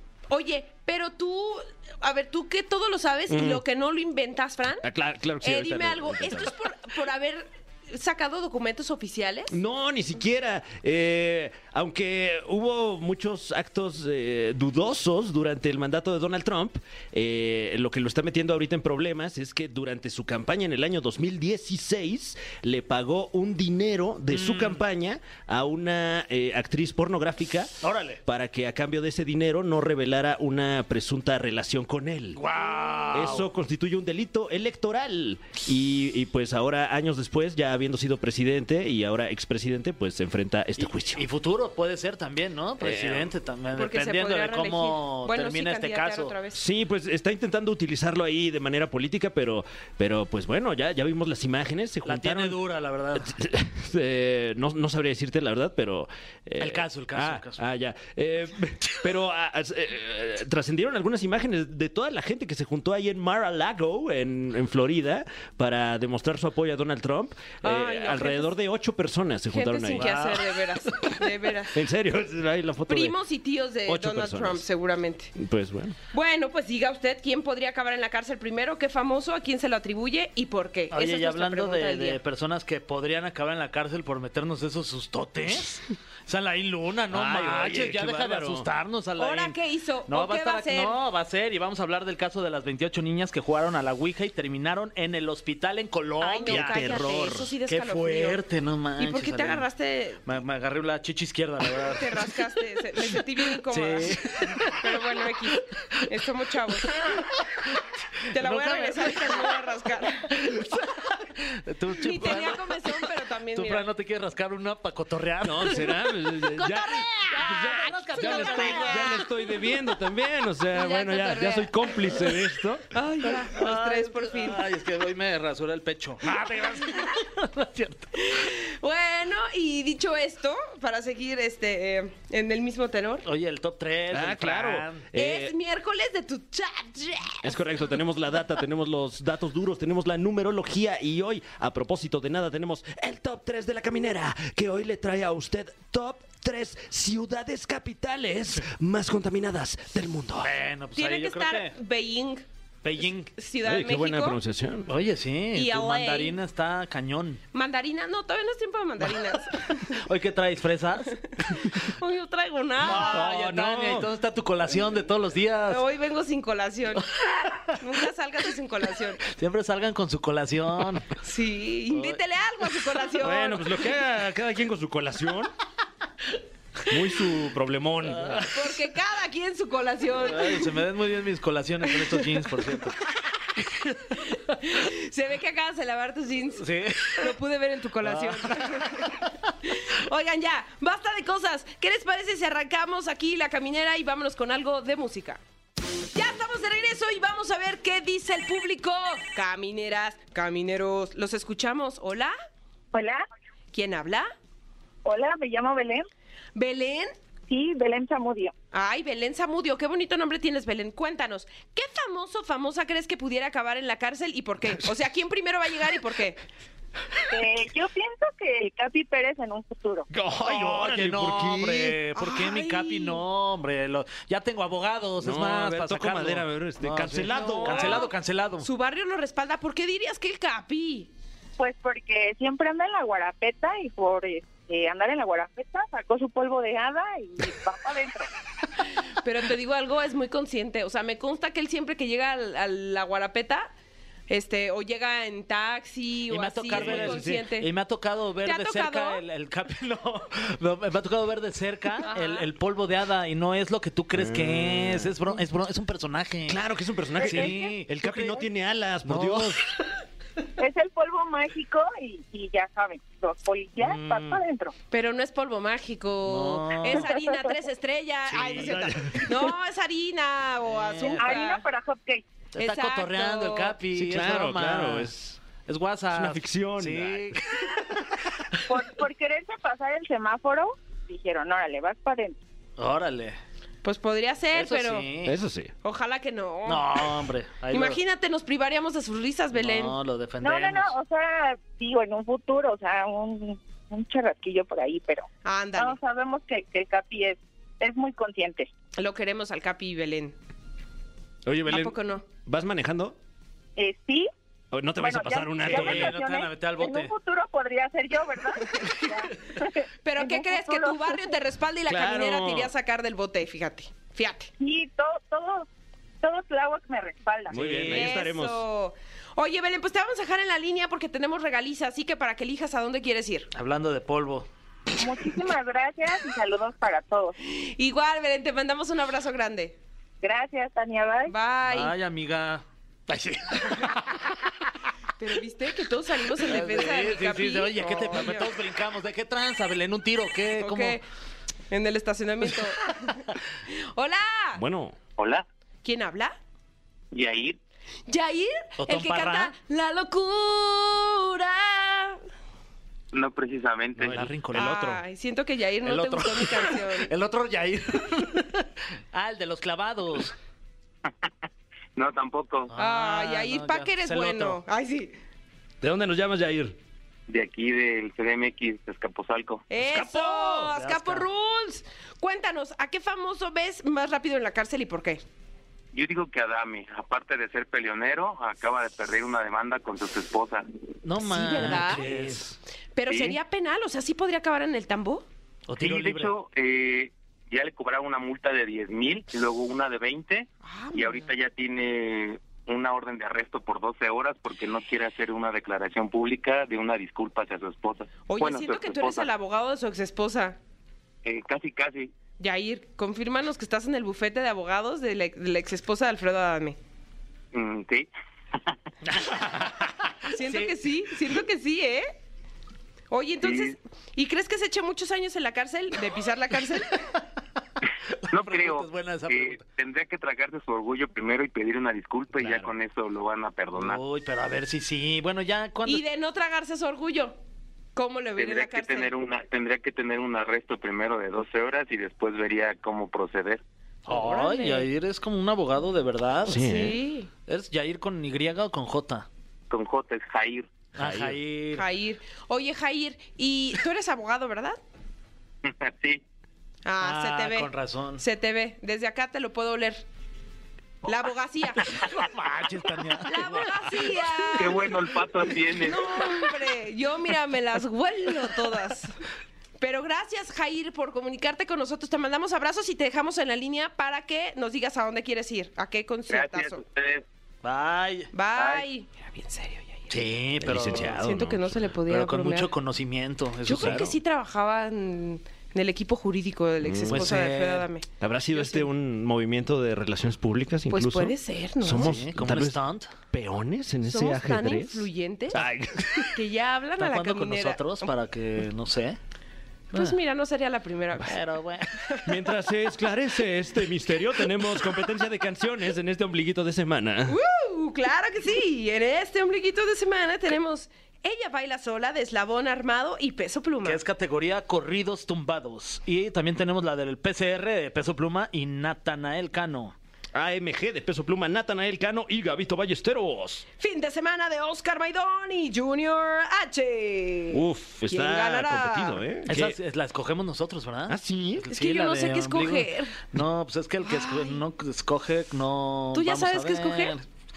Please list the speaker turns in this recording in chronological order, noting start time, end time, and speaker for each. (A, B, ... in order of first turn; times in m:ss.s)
0:00.3-0:04.8 A
0:03.3-0:03.6 B
0:04.8-0:06.5 B
0:05.4-0:09.6 A
0:09.5-0:32.4 B
0:24.3-0:24.8 C
0:27.8-0:28.2 C
0:32.3-0:33.5 C
0:33.1-0:41.2 B
0:40.8-0:46.3 C
0:42.8-0:43.3 B
0:43.7-0:46.6 A
0:46.5-0:52.6 B
0:52.0-0:53.4 C
0:53.2-1:10.0 B
0:56.6-0:57.6 C
1:07.6-1:08.5 A
1:09.5-1:11.8 A
1:09.9-1:11.2 C
1:11.7-1:13.2 B
1:12.9-1:15.3 A
1:13.9-1:14.6 B
1:15.4-1:16.0 B
1:16.1-1:22.2 A
1:20.9-1:37.1 C
1:27.1-1:28.7 B
1:29.2-1:31.0 A
1:36.2-1:38.4 A
1:36.4-1:37.5 B
1:37.7-1:39.6 C
1:39.0-1:40.2 A
1:40.2-1:42.3 C
1:41.8-1:47.0 A
1:43.2-1:45.0 C
1:45.6-1:46.0 C
1:46.8-1:49.5 C
1:48.3-1:50.3 A
1:50.2-1:53.0 C
1:52.0-1:53.9 A
1:53.5-1:55.8 C
1:55.4-2:02.9 B
1:56.5-1:59.5 A
1:57.4-1:59.2 C
2:00.7-2:02.4 A
2:02.9-2:04.6 A
2:03.3-2:08.2 C
2:08.1-2:13.2 A
2:13.2-2:15.1 C
2:14.1-2:15.5 B
2:15.1-2:17.6 A
2:17.4-2:30.5 B
2:30.4-2:31.7 C
2:31.0-2:32.4 A
2:32.8-2:33.3 C
2:33.4-2:34.4 A
2:33.6-2:34.9 B
2:34.9-2:37.4 C
2:35.5-2:36.4 A
2:37.5-2:40.0 A
2:39.6-2:41.1 C
2:41.2-2:43.3 A
2:42.8-2:45.8 C
2:42.8-2:44.1 B
2:45.7-2:47.1 A
2:47.2-2:47.8 C
2:47.7-2:49.2 A
2:49.3-2:51.1 C
2:51.2-2:53.7 A
2:51.9-2:52.2 C
2:53.2-2:55.5 B
2:56.8-2:58.5 B
2:58.2-2:58.5 C
2:58.4-3:00.8 A
3:00.2-3:03.0 C
3:01.9-3:02.2 A
3:03.6-3:04.6 C
3:04.1-3:15.4 A
3:06.6-3:07.3 C
3:08.0-3:09.0 C
3:16.1-3:22.3 A
3:22.9-3:23.2 D
3:23.7-3:24.3 A
3:25.0-3:26.1 D
3:26.5-3:27.1 A
3:27.5-3:28.5 D
3:28.7-3:36.4 A
3:37.3-3:40.0 D
3:40.1-3:42.0 B
3:40.4-3:48.7 C
3:42.2-3:43.2 A
3:45.2-3:48.1 B
3:47.3-3:51.1 A
3:51.6-3:58.3 D
3:59.0-4:03.7 A
4:04.3-4:07.7 A
4:06.3-4:16.6 C
4:06.7-4:07.4 B
4:08.4-4:09.2 A
4:12.0-4:12.5 A
4:14.2-4:15.1 B
4:16.5-4:19.6 B
4:17.2-4:17.6 D
4:17.2-4:18.4 C
4:19.0-4:19.7 C
4:20.6-4:24.7 D
4:23.8-4:24.4 C
4:24.9-4:31.6 A
4:26.2-4:27.1 C
4:26.9-4:27.6 D
4:28.3-4:28.9 C
4:28.4-4:29.5 B
4:30.7-4:31.3 C
4:31.2-4:32.2 D
4:32.5-4:35.1 C
4:32.6-4:33.7 A
4:33.9-4:35.4 B
4:35.6-4:38.2 C
4:36.1-4:37.6 B
4:38.6-4:42.4 D
4:42.8-4:43.4 C
4:43.8-4:45.1 A
4:44.5-4:45.3 C
4:45.2-4:45.7 B
4:45.8-4:47.2 A
4:46.6-4:48.0 C
4:47.7-4:49.9 A
4:49.5-4:50.9 C
4:50.4-4:58.7 D
4:55.4-4:56.0 A
4:59.0-5:00.3 A
5:01.4-5:03.2 B
5:01.6-5:02.2 A
5:03.8-5:04.3 D
5:04.7-5:06.2 B
5:05.0-5:11.3 D
5:05.6-5:07.1 C
5:10.0-5:14.5 A
5:11.9-5:12.7 B
5:14.6-5:15.7 D
5:16.2-5:17.6 D
5:17.5-5:18.1 C
5:17.5-5:18.6 B
5:17.8-5:23.5 A
5:23.5-5:24.5 C
5:25.0-5:27.4 D
5:27.4-5:29.8 A
5:30.2-5:31.3 D
5:31.2-5:31.9 A
5:31.7-5:34.4 C
5:35.2-5:38.5 A
5:36.4-5:41.0 C
5:40.5-5:41.0 A
5:41.7-5:44.6 A
5:44.6-5:45.0 B
5:45.2-5:45.4 E
5:45.8-5:46.4 A
5:47.1-5:47.6 E
5:48.1-5:52.2 A
5:48.8-5:49.5 C
5:53.1-5:54.3 E
5:54.0-5:55.0 C
5:54.5-5:57.1 A
5:55.8-6:00.3 C
6:02.0-6:02.7 E
6:02.7-6:04.6 C
6:02.7-6:05.1 A
6:05.8-6:06.8 B
6:07.3-6:09.6 E
6:09.7-6:15.2 A
6:09.8-6:10.7 B
6:10.7-6:11.3 C
6:15.9-6:20.7 E
6:21.0-6:22.5 C
6:21.2-6:22.0 A
6:21.5-6:22.5 B
6:22.9-6:25.2 A
6:23.1-6:23.4 E
6:25.7-6:26.3 C
6:25.8-6:39.3 E
6:30.6-6:31.3 A
6:38.2-6:40.6 A
6:41.2-6:42.1 E
6:42.4-6:46.8 A
6:47.5-6:48.7 E
6:49.0-6:50.8 C
6:50.3-6:52.1 A
6:53.1-6:57.0 A
6:53.4-6:53.7 E
6:58.1-6:59.6 C
6:58.3-7:04.0 E
7:02.4-7:02.7 B
7:03.7-7:06.0 C
7:05.8-7:07.4 A
7:07.9-7:09.1 A
7:08.4-7:13.6 E
7:14.1-7:16.6 C
7:14.1-7:14.9 A
7:16.5-7:17.0 B
7:16.5-7:17.3 A
7:17.5-7:19.3 C
7:19.7-7:20.7 E
7:21.0-7:21.8 C
7:21.0-7:21.4 B
7:21.7-7:24.8 A
7:25.6-7:26.2 E
7:26.8-7:30.0 A
7:27.0-7:28.2 C
7:31.0-7:32.1 A
7:32.0-7:34.4 C
7:33.2-7:35.0 A
7:34.5-7:36.1 E
7:35.8-7:39.1 A
7:39.8-7:46.8 A
7:46.3-7:47.2 E
7:47.6-7:48.3 C
7:48.3-7:50.2 A
7:48.5-7:48.8 E
7:50.1-7:51.3 C
7:50.6-7:51.8 B
7:51.1-7:52.7 A
7:52.1-7:54.1 C
7:53.6-7:58.9 A
7:53.8-7:54.1 B
7:56.8-7:57.4 B
7:57.1-7:57.9 C
7:58.2-8:06.4 B
8:00.9-8:02.2 A
8:02.0-8:03.1 C
8:04.0-8:05.6 A
8:06.3-8:08.1 A
8:07.0-8:09.2 C
8:09.9-8:11.4 A
8:11.2-8:12.1 C
8:12.1-8:12.3 A
8:12.2-8:17.4 B
8:17.3-8:24.0 A
8:23.8-8:29.9 C
8:30.3-8:33.6 B
8:33.8-8:39.2 A
8:37.5-8:39.8 B
8:39.5-8:47.2 C
8:41.1-8:41.6 B
8:41.7-8:43.2 A
8:44.0-8:44.6 A
8:46.1-8:47.2 A